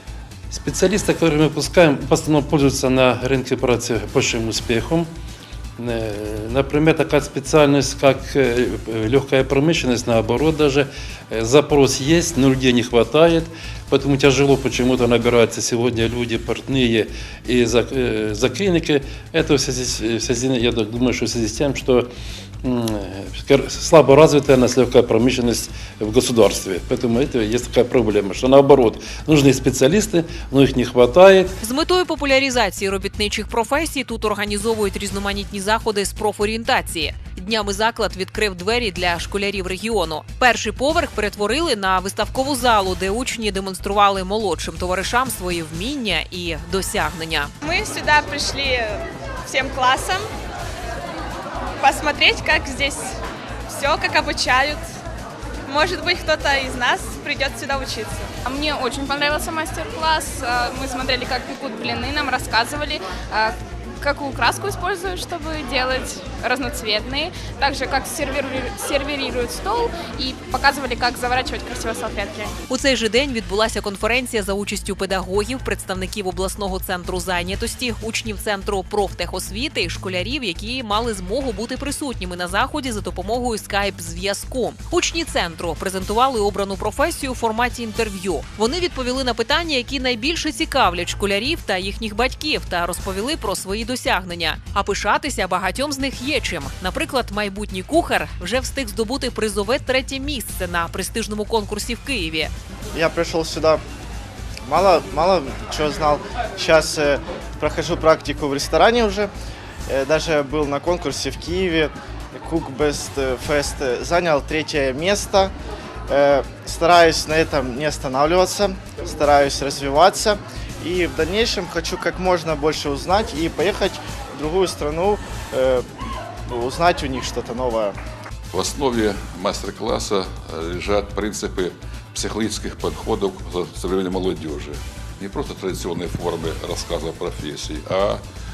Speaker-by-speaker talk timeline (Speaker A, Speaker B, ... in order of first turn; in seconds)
Speaker A: 0.5-5.1, 5.8-22.1, 22.6-31.5
Speaker B: 31.6-47.5, 72.7-102.5
Speaker C: 47.6-50.3, 51.8-53.2, 53.7-54.8, 55.7-58.3
Speaker D: 58.5-72.5
Speaker E: 102.9-103.8, 104.7-109.3, 109.9-115.5, 116.1-125.8, 126.5-128.0
Speaker F: 128.5-138.2